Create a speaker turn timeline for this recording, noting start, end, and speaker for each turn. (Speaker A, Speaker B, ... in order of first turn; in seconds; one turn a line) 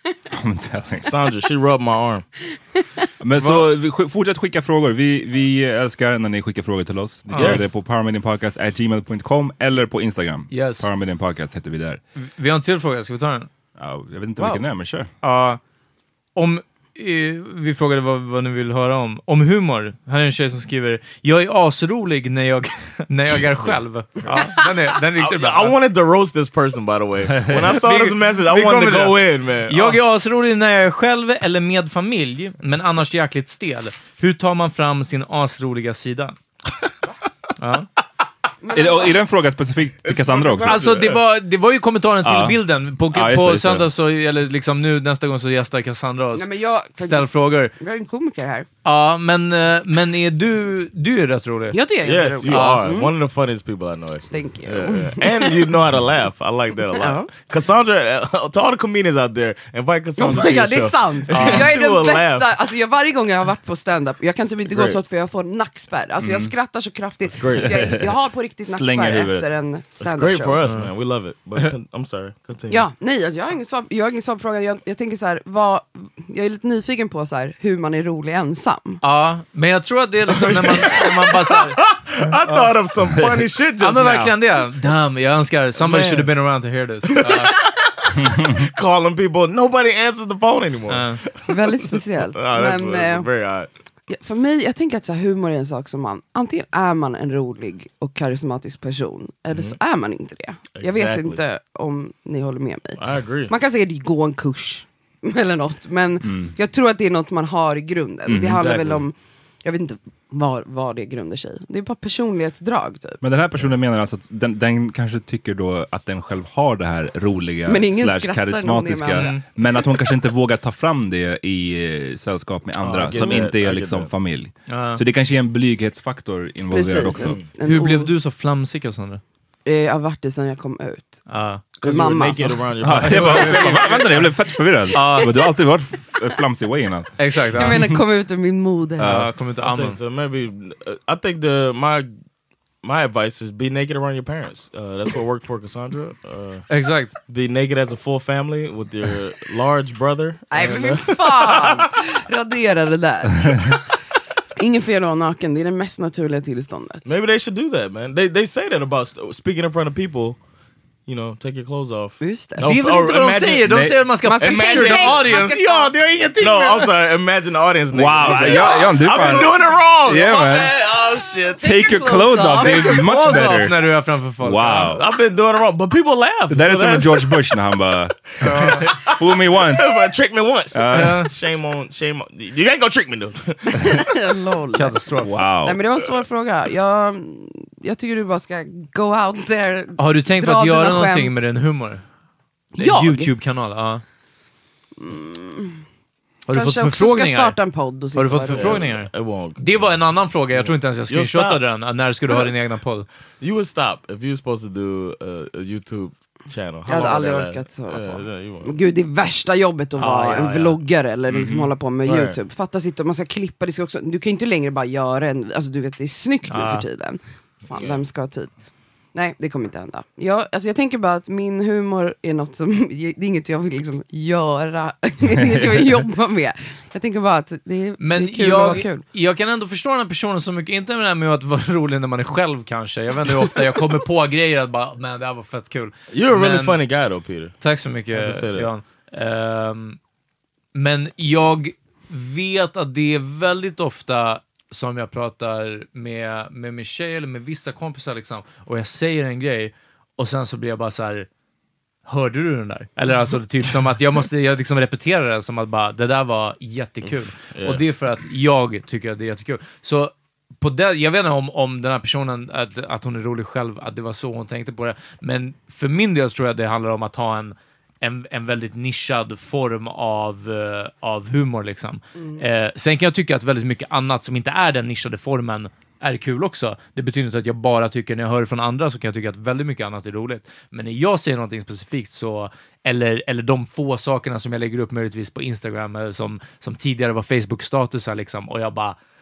Speaker A: 0.3-1.1
Speaker B: 1.0-2.2
Speaker A: 3.2-12.0
Speaker C: 3.4-3.6
Speaker C: 7.3-7.6
Speaker B: 7.3-7.7
Speaker C: 10.5-10.9
Speaker C: 12.2-13.5
Speaker A: 13.8-15.1
Speaker C: 15.2-15.6
Speaker C: 16.3-25.8
Speaker B: 25.2-30.0
Speaker A: 27.3-27.7
Speaker C: 27.5-36.4
Speaker C: 37.6-37.9
Speaker D: 38.6-39.2
Speaker A: 38.7-40.8
Speaker B: 40.0-41.2
Speaker C: 40.6-47.7
Speaker A: 42.2-43.9
Speaker D: 46.4-48.7
Speaker C: 48.8-51.8
Speaker D: 51.7-53.1
Speaker B: 52.0-62.5
Speaker C: 52.5-52.9
Speaker D: 54.3-55.5
Speaker D: 56.9-57.3
Speaker D: 60.2-70.6
Speaker C: 61.3-61.6
Speaker B: 64.7-65.0
Speaker A: 66.2-66.5
Speaker B: 67.4-68.0
Speaker A: 67.6-68.1
Speaker A: 68.6-69.5
Speaker B: 70.0-72.8
Speaker C: 70.6-70.9
Speaker D: 72.7-79.0
Speaker C: 79.0-82.7
Speaker B: 80.5-84.3
Speaker C: 83.8-87.5
Speaker B: 85.8-86.6
Speaker B: 87.1-87.7
Speaker A: 88.2-88.7
Speaker B: 88.4-91.6
Speaker C: 90.9-91.2
Speaker D: 91.5-93.3
Speaker B: 92.3-93.7
Speaker D: 94.1-113.2
Speaker B: 99.5-99.8
Speaker B: 100.7-101.4
Speaker B: 103.0-103.5
Speaker A: 106.2-106.5
Speaker A: 108.2-108.8
Speaker B: 108.5-109.0
Speaker A: 113.2-127.4
Speaker D: 117.7-119.7
Speaker C: 119.2-119.4
Speaker B: 122.8-124.1
Speaker C: 124.7-125.0
Speaker D: 126.7-128.1
Speaker B: 127.2-127.5
Speaker C: 127.6-129.2
Speaker D: 129.6-132.6
Speaker C: 131.3-131.6
Speaker B: 131.8-134.1
Speaker A: 132.8-138.0
Speaker C: 133.0-134.2
Speaker C: 134.9-135.3
Speaker C: 137.2-137.8
Speaker D: 137.6-139.1
Speaker A: 139.0-139.3
Speaker C: 139.0-140.0
Speaker B: 139.6-142.1
Speaker B: 142.8-151.9
Speaker C: 146.7-147.2
Speaker D: 150.5-153.9
Speaker D: 154.6-157.1
Speaker B: 157.0-160.4
Speaker B: 161.1-165.6
Speaker D: 162.2-162.6
Speaker C: 162.6-166.9
Speaker A: 163.7-164.0
Speaker D: 164.2-165.9
Speaker B: 166.4-172.0
Speaker A: 167.9-170.8
Speaker A: 171.6-173.7
Speaker D: 171.6-173.1
Speaker B: 172.6-173.7
Speaker C: 172.6-175.0
Speaker A: 174.4-175.0
Speaker B: 174.9-177.4
Speaker A: 176.5-179.9
Speaker C: 178.4-178.8
Speaker B: 178.4-184.0
Speaker A: 180.7-181.3
Speaker C: 180.9-181.3
Speaker D: 183.8-185.0
Speaker C: 184.7-185.4
Speaker A: 185.2-185.8
Speaker D: 185.6-191.4
Speaker C: 190.0-192.0
Speaker D: 192.7-193.3
Speaker C: 192.8-194.0
Speaker D: 195.0-195.8
Speaker C: 196.5-197.6
Speaker D: 196.5-198.8
Speaker C: 198.1-203.1
Speaker B: 198.5-201.6
Speaker B: 203.4-208.8
Speaker D: 206.9-218.5
Speaker C: 210.0-210.8
Speaker B: 211.3-212.4
Speaker C: 216.5-216.8
Speaker B: 217.7-218.0
Speaker D: 219.1-229.0
Speaker C: 228.0-236.8
Speaker B: 236.1-237.6
Speaker C: 237.6-240.0
Speaker B: 238.1-238.7
Speaker C: 240.7-251.3
Speaker C: 252.1-288.9
Speaker B: 257.0-257.8
Speaker D: 272.1-272.4